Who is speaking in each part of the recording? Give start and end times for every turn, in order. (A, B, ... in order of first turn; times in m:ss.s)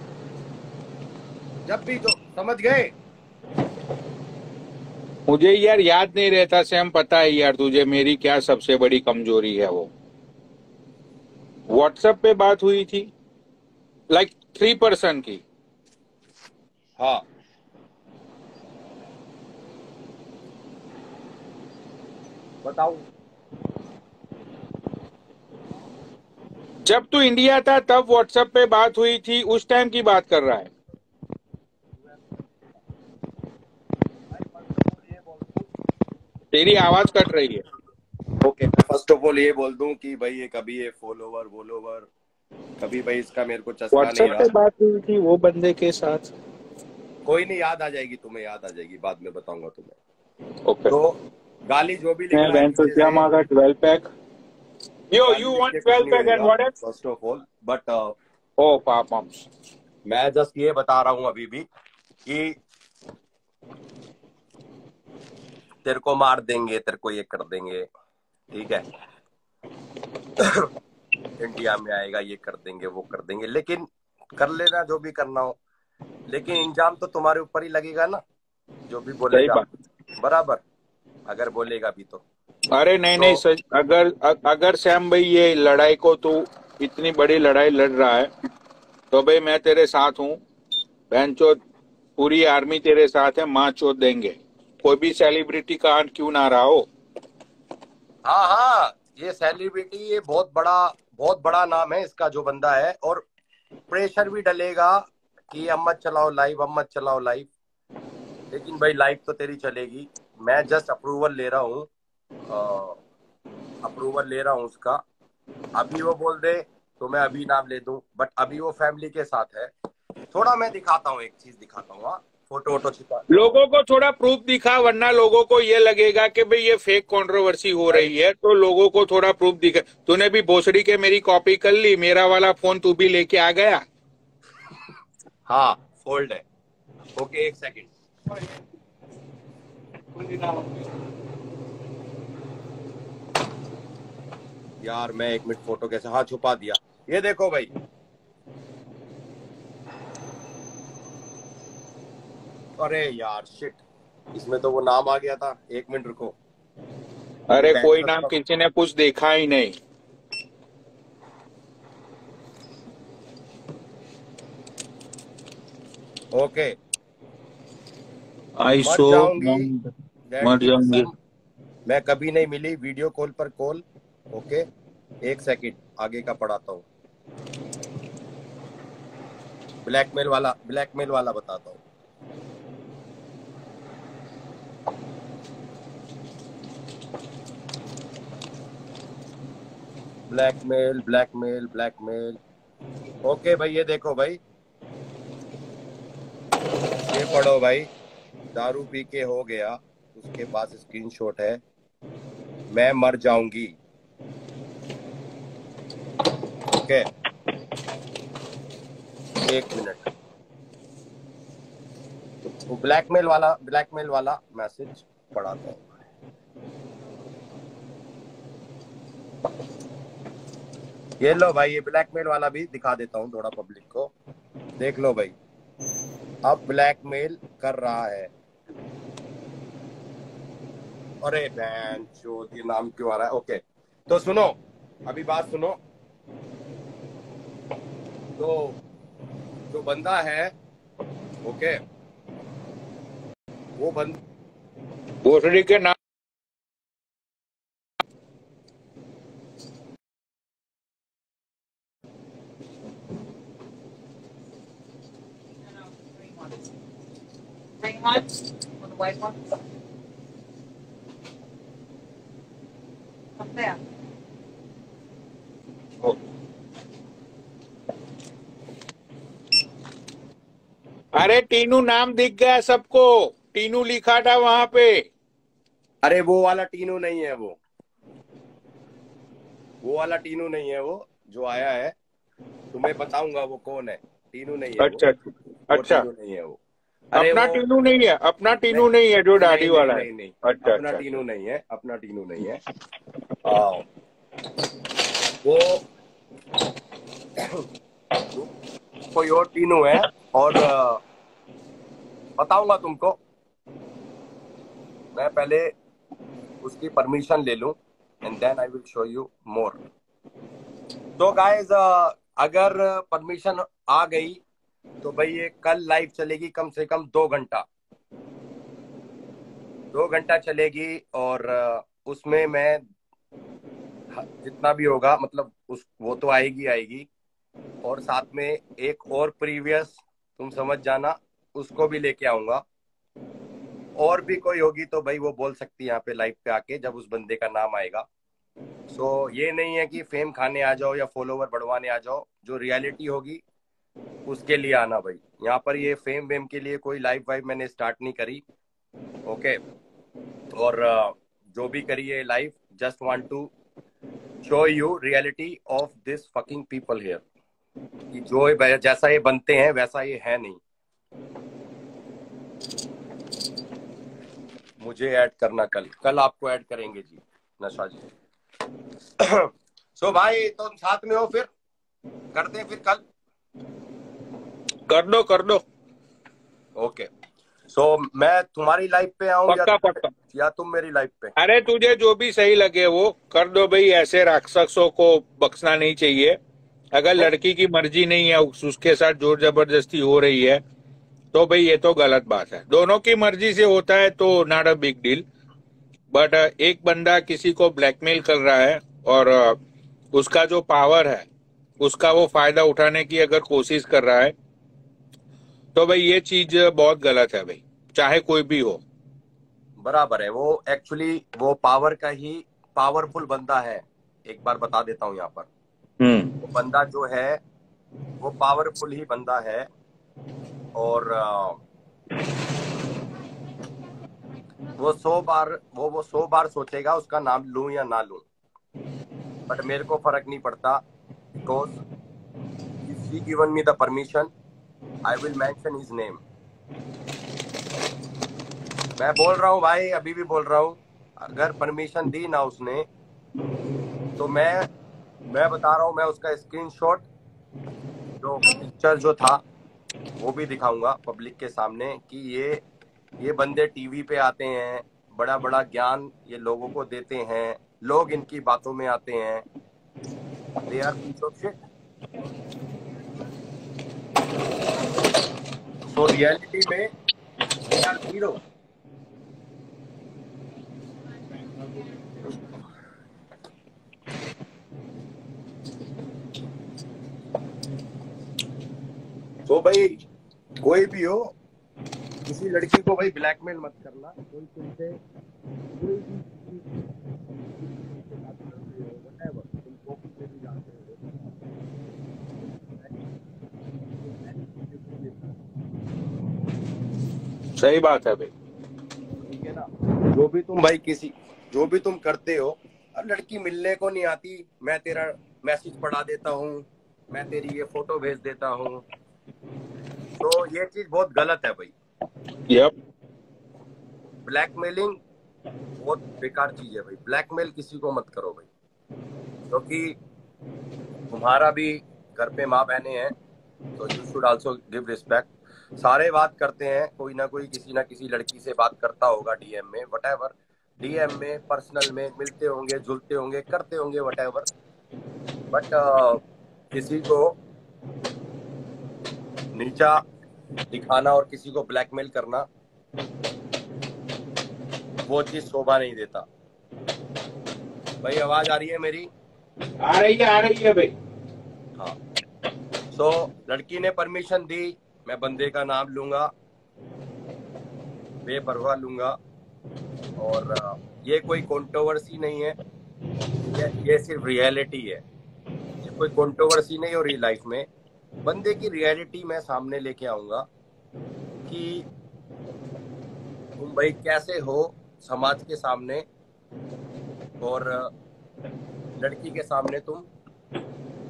0:01.6-0:02.9 A
0:05.3-0:09.9 B
0:11.7-0:13.1 B
0:14.1-0:15.4 B
0:17.0-0:17.2 A
0:22.6-0:23.0 A
0:26.8-0:30.7 B
0:34.3-0:35.7 A
0:36.5-0:37.6 B
0:38.7-0:42.1 A
0:42.8-0:44.5 A
0:43.9-0:46.3 B
0:47.2-0:50.0 A
0:50.6-0:50.9 B
0:50.9-0:51.2 A
0:51.7-0:53.2 A
0:52.3-0:54.1 B
0:55.1-0:56.7 B
0:55.2-0:58.1 A
0:58.6-0:59.5 B
1:00.1-1:01.7 A
1:02.2-1:02.6 A
1:05.8-1:07.9 A
1:08.5-1:08.8 A
1:10.4-1:10.7 A
1:11.4-1:15.6 A
1:16.3-1:18.2 A
1:18.9-1:19.6 A
1:19.3-1:19.6 B
1:20.2-1:20.6 A
1:21.3-1:22.2 A
1:22.7-1:28.3 B
1:23.2-1:23.4 A
1:29.1-1:30.4 B
1:31.1-1:31.6 B
1:32.2-1:36.9 B
1:38.2-1:43.2 A
1:43.9-1:47.5 A
1:48.5-1:51.9 A
1:52.5-1:53.0 A
1:53.8-1:55.0 A
1:55.8-1:59.7 A
2:00.3-2:03.6 A
2:03.3-2:13.8 B
2:15.5-2:16.4 A
2:17.2-2:17.9 A
2:24.8-2:27.7 A
2:32.8-2:33.8 A
2:34.3-2:36.4 A
2:37.5-2:39.8 B
2:37.5-2:38.3 A
2:46.3-2:46.8 A
2:48.6-2:49.9 B
2:48.8-2:49.7 A
2:50.3-2:51.1 A
2:50.4-2:51.0 B
2:51.9-2:54.6 A
2:55.2-2:56.8 A
2:59.8-3:01.8 A
3:10.3-3:12.4 A
3:13.2-3:14.4 A
3:17.0-3:17.9 A
3:18.5-3:21.6 A
3:22.7-3:23.8 A
3:26.7-3:27.1 A
3:29.4-3:30.1 A
3:32.6-3:35.9 A
3:41.2-3:44.1 A
3:44.8-3:45.4 A
3:46.4-3:48.3 A
3:51.2-3:55.8 A
3:58.4-3:58.8 A
3:59.7-4:00.5 A
4:01.4-4:01.8 A
4:03.8-4:04.2 A
4:05.2-4:05.9 B
4:16.2-4:16.5 C
4:17.8-4:19.6 C
4:23.4-4:23.8 C
4:31.2-4:35.0 B
4:36.0-4:37.6 A
4:39.8-4:41.9 A
4:42.7-4:45.0 A
4:44.8-4:46.0 B
4:45.7-4:46.6 A
4:47.1-4:47.6 A
4:47.1-4:51.0 B
4:48.7-4:52.6 A
4:53.4-4:53.8 A
4:55.4-4:55.8 A
4:57.4-4:57.6 A
4:59.1-5:01.0 A
5:02.4-5:03.2 A
5:05.1-5:05.7 A
5:06.6-5:09.8 A
5:11.2-5:14.4 A
5:15.0-5:17.6 A
5:19.9-5:22.8 A
5:24.1-5:27.1 A
5:27.8-5:32.6 A
5:34.0-5:38.0 A
5:38.9-5:43.4 A
5:44.2-5:48.4 A
5:49.2-5:49.6 A
5:50.5-5:53.5 A
5:54.4-5:57.2 A
5:58.1-6:00.6 A
6:04.8-6:08.0 A
6:09.2-6:11.5 A
6:12.3-6:13.0 A
6:14.9-6:15.6 B
6:16.8-6:17.1 A
6:17.7-6:21.3 A
6:19.5-6:20.1 B
6:21.4-6:26.4 B
6:26.9-6:30.6 B
6:31.3-6:35.2 B
6:36.1-6:39.6 B
6:40.1-6:41.2 B
6:41.8-6:44.3 B
6:45.8-6:48.8 B
6:49.8-6:55.5 A
6:56.0-6:56.4 B
6:56.4-6:57.4 A
6:58.2-6:59.7 A
7:00.8-7:01.6 A
7:04.8-7:08.2 A
7:09.5-7:10.8 A
7:11.4-7:11.8 A
7:12.8-7:14.3 A
7:15.0-7:16.2 A
7:19.0-7:22.9 A
7:24.2-7:24.7 A
7:25.3-7:27.0 A
7:28.2-7:29.4 A
7:30.2-7:32.6 A
7:33.2-7:39.4 A
7:40.7-7:41.6 A
7:45.9-7:46.9 A
7:47.7-7:48.4 A
7:59.5-7:59.9 A
8:00.6-8:01.3 A
8:02.2-8:05.0 A
8:05.7-8:06.8 A
8:07.6-8:11.2 A
8:12.6-8:13.0 A
8:14.0-8:15.3 A
8:17.6-8:18.3 B
8:19.2-8:28.8 A
8:30.2-8:31.7 A
8:34.2-8:35.0 A
8:35.8-8:38.5 A
8:39.5-8:40.0 A
8:41.1-8:43.1 A
8:43.8-8:54.5 A
8:55.5-8:56.2 A
8:56.7-8:57.4 A
8:59.5-9:00.0 A
9:00.7-9:02.5 A
9:05.1-9:06.2 A
9:08.0-9:09.1 A
9:09.8-9:10.9 B
9:12.9-9:16.3 A
9:18.2-9:19.2 A
9:20.2-9:22.6 A
9:23.5-9:25.0 A
9:25.8-9:27.7 A
9:28.2-9:30.4 A
9:31.4-9:31.9 A
9:33.6-9:36.0 A
9:37.4-9:37.9 A
9:39.0-9:40.1 A